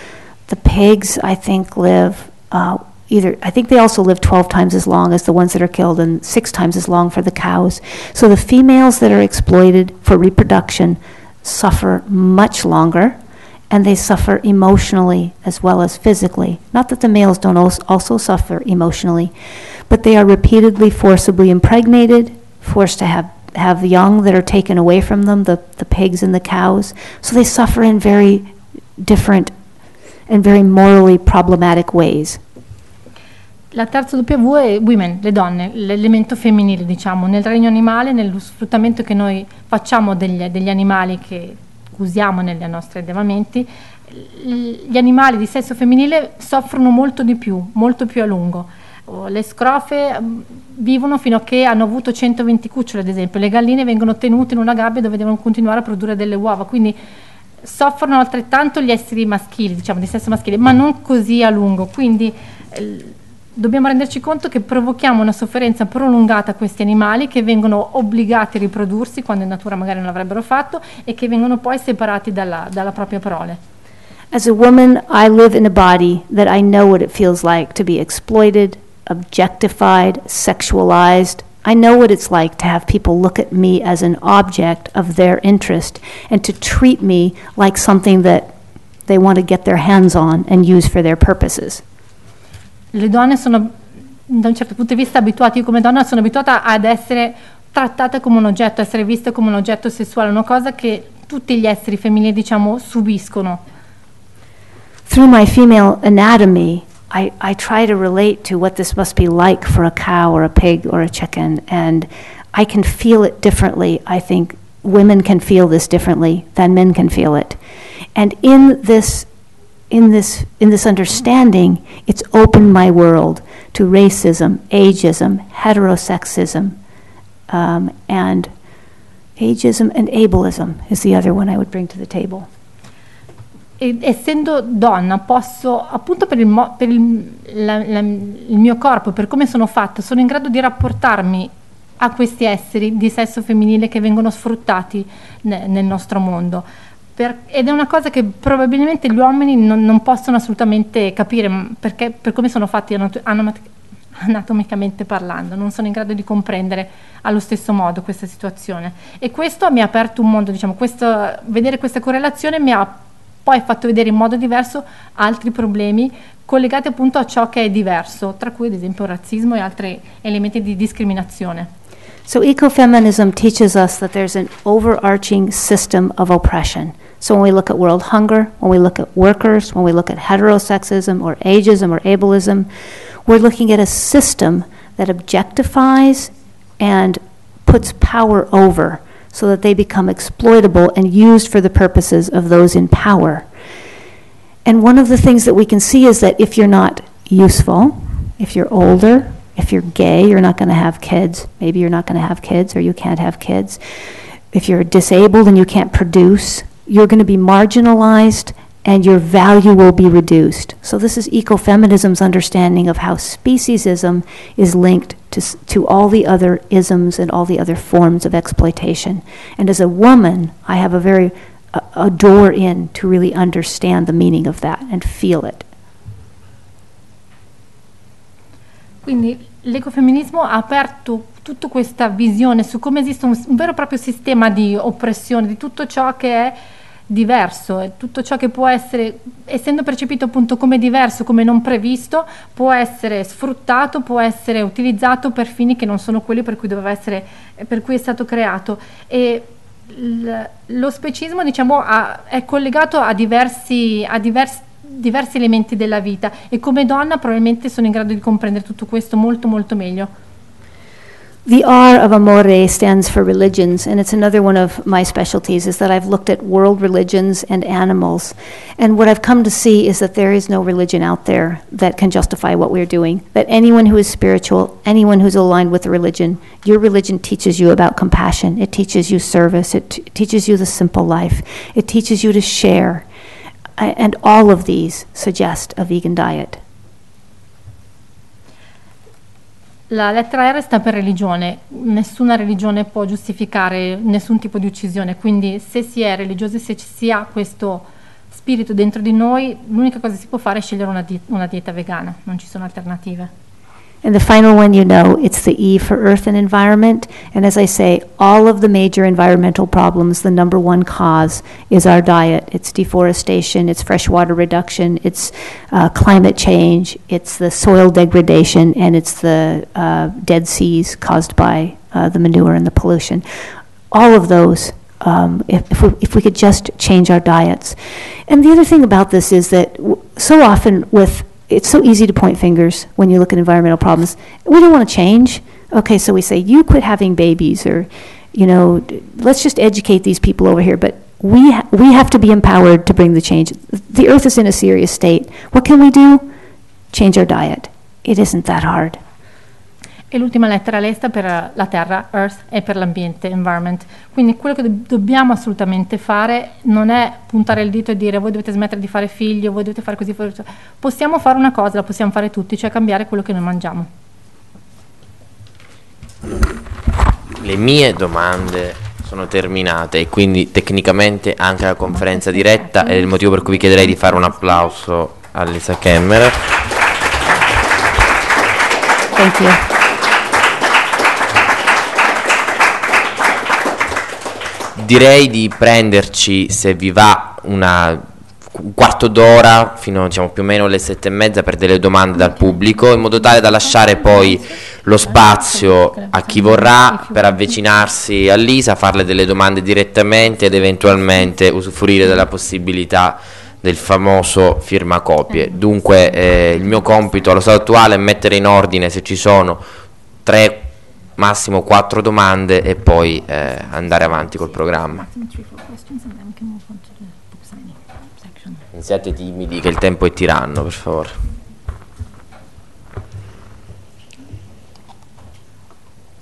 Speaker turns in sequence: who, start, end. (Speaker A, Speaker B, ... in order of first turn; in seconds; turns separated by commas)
Speaker A: 0.5-13.2, Speaker A: 13.7-19.3, Speaker A: 19.9-29.5, Speaker A: 30.3-32.4, Speaker B: 33.7-57.0, Speaker B: 57.6-73.6, Speaker A: 74.3-88.5, Speaker A: 89.0-91.8, Speaker B: 92.9-93.7, Speaker B: 94.3-103.6, Speaker A: 105.1-117.6, Speaker A: 118.1-119.3, Speaker A: 119.9-126.8, Speaker A: 127.5-128.5, Speaker A: 129.4-132.5, Speaker B: 133.8-146.6, Speaker B: 147.2-171.7, Speaker A: 172.3-182.7, Speaker A: 183.2-193.5, Speaker A: 194.6-203.8, Speaker A: 204.5-225.7, Speaker B: 229.0-236.6, Speaker B: 237.1-260.1, Speaker A: 261.4-283.1, Speaker A: 283.8-286.6, Speaker B: 289.9-303.3, Speaker A: 304.0-323.2, Speaker A: 323.9-346.3, Speaker A: 346.9-349.0, Speaker B: 350.1-363.9, Speaker C: 367.4-376.5, Speaker B: 372.0-374.1, Speaker A: 379.1-379.6, Speaker C: 384.8-409.6, Speaker B: 395.1-397.6, Speaker C: 410.2-415.0, Speaker B: 414.8-418.6, Speaker C: 418.7-421.2